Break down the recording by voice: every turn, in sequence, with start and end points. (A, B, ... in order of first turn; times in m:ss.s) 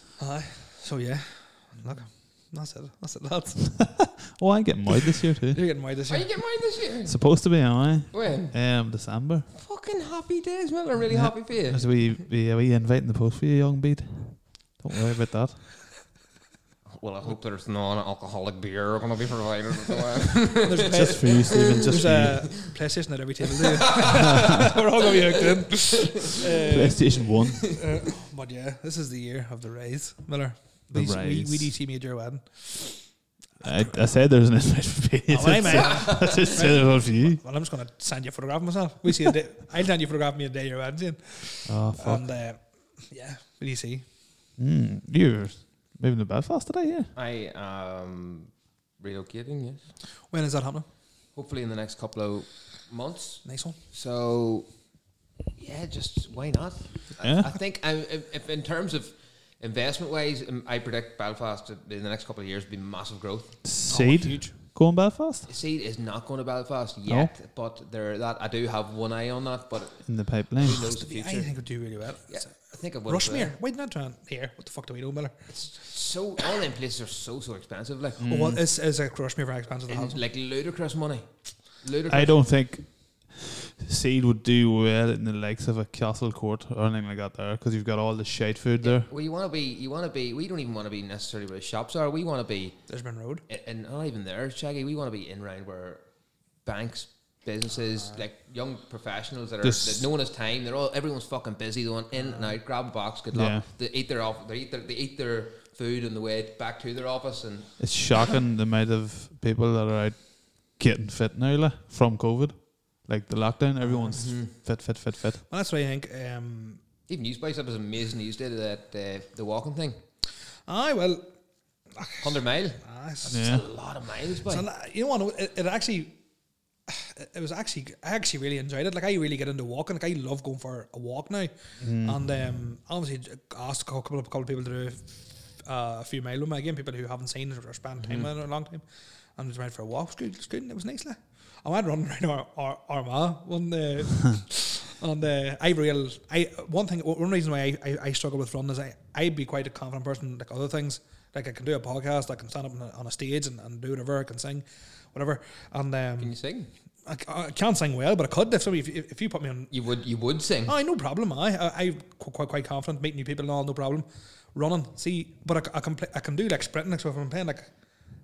0:00.2-0:03.9 A
0:03.8-0:05.6 B
0:05.5-0:06.3 A
0:06.1-0:07.3 C
0:07.0-0:09.5 B
0:08.1-0:08.6 C
0:09.5-0:12.0 C
0:11.1-0:15.8 B
0:16.9-0:22.8 C
0:20.6-0:34.1 A
0:20.9-0:22.6 B
0:24.0-0:24.3 C
0:24.2-0:24.6 B
0:26.7-0:27.8 B
0:27.4-0:27.8 C
0:30.9-0:31.7 B
0:33.6-0:37.4 B
0:35.3-0:44.0 A
0:35.7-0:36.5 C
0:41.7-0:42.3 B
0:44.6-0:47.1 B
0:47.2-0:49.9 C
0:50.3-0:50.9 A
0:51.4-0:54.7 C
0:53.4-0:53.8 A
0:55.6-1:03.6 C
0:57.2-0:57.5 B
1:03.6-1:05.5 B
1:03.9-1:04.6 A
1:05.5-1:11.5 C
1:10.0-1:10.8 B
1:10.6-1:15.5 A
1:12.3-1:13.5 C
1:15.5-1:18.2 C
1:18.2-1:18.6 B
1:18.3-1:20.2 A
1:19.9-1:22.4 C
1:22.1-1:29.1 B
1:28.8-1:32.8 C
1:32.9-1:33.4 A
1:33.5-1:36.0 C
1:36.6-1:48.3 C
1:39.6-1:40.1 B
1:42.2-1:42.6 A
1:43.3-1:43.7 B
1:47.8-1:55.4 B
1:53.8-1:54.2 A
1:54.1-1:54.5 C
1:55.5-1:56.8 A
1:57.1-2:00.0 C
2:00.7-2:01.3 A
2:02.0-2:03.6 A
2:02.2-2:04.6 C
2:03.3-2:03.6 B
2:04.5-2:06.2 A
2:06.9-2:18.8 A
2:11.8-2:12.2 B
2:19.4-2:36.4 A
2:36.2-2:36.7 C
2:37.0-2:39.7 A
2:39.7-2:40.8 C
2:40.7-2:47.7 A